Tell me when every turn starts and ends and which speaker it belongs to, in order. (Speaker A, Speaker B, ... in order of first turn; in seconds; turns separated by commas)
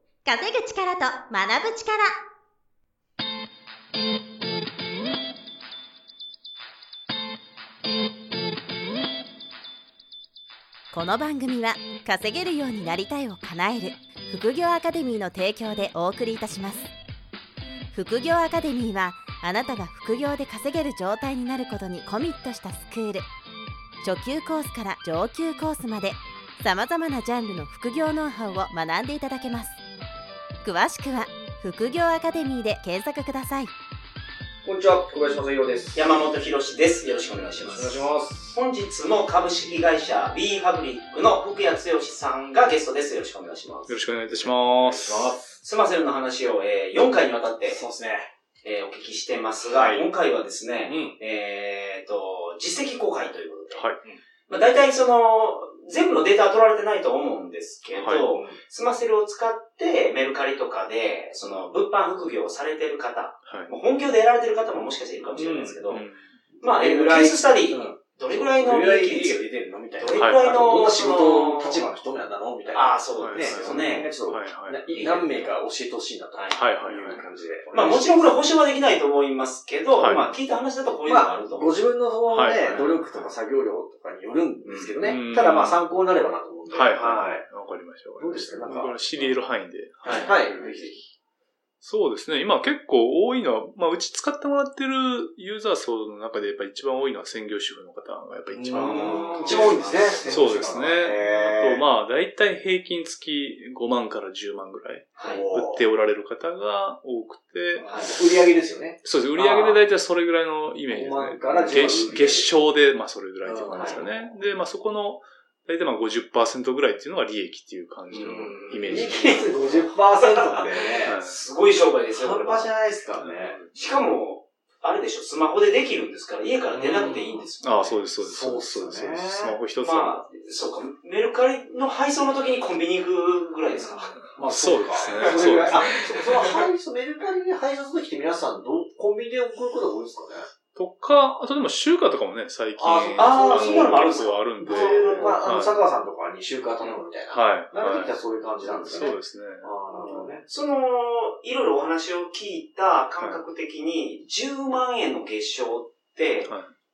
Speaker A: 0.2-2.1, Speaker A: 10.9-16.9, Speaker A: 17.9-23.3, Speaker A: 24.0-29.8, Speaker A: 30.6-33.7, Speaker B: 34.6-36.1, Speaker C: 35.9-44.0, Speaker B: 37.6-38.6, Speaker D: 43.9-45.4, Speaker B: 44.3-45.6, Speaker C: 45.6-47.8, Speaker B: 47.6-48.3, Speaker C: 48.6-53.9, Speaker B: 49.6-50.1, Speaker B: 50.9-51.2, Speaker D: 53.7-54.0, Speaker C: 54.5-66.0, Speaker D: 58.0-58.3, Speaker B: 58.3-58.6, Speaker D: 63.5-63.7, Speaker B: 65.3-78.4, Speaker D: 65.8-66.3, Speaker C: 66.6-71.8, Speaker D: 70.2-70.5, Speaker C: 72.7-74.1, Speaker D: 73.2-75.1, Speaker C: 74.9-75.5, Speaker C: 76.3-76.6, Speaker D: 76.5-77.2, Speaker C: 77.7-81.7, Speaker D: 79.9-80.3, Speaker B: 81.0-87.5, Speaker D: 82.3-83.2, Speaker C: 82.6-83.3, Speaker C: 84.6-85.1, Speaker D: 85.0-85.9, Speaker D: 86.7-91.1, Speaker B: 88.2-89.4, Speaker C: 90.0-90.4, Speaker B: 90.1-91.1, Speaker D: 91.8-108.4, Speaker B: 98.5-101.8, Speaker C: 98.7-100.4, Speaker C: 105.2-105.4, Speaker B: 105.2-105.8, Speaker C: 107.8-108.2, Speaker B: 108.1-109.8, Speaker D: 109.0-119.8, Speaker B: 110.9-112.5, Speaker B: 113.4-114.4, Speaker C: 113.7-114.0, Speaker C: 118.1-122.7, Speaker B: 118.3-121.2, Speaker D: 121.0-121.4, Speaker B: 122.1-123.6, Speaker D: 123.2-124.0, Speaker C: 123.7-128.0, Speaker B: 126.8-127.4, Speaker D: 126.8-130.3, Speaker B: 128.2-129.6, Speaker C: 129.8-134.1, Speaker B: 133.7-140.5, Speaker D: 133.8-136.7, Speaker C: 135.1-135.7, Speaker D: 140.7-145.8, Speaker B: 142.8-150.4, Speaker C: 143.1-145.4, Speaker D: 147.3-148.2, Speaker C: 148.6-149.1, Speaker D: 148.8-150.4, Speaker C: 150.5-156.5, Speaker D: 153.2-153.4, Speaker D: 156.4-156.7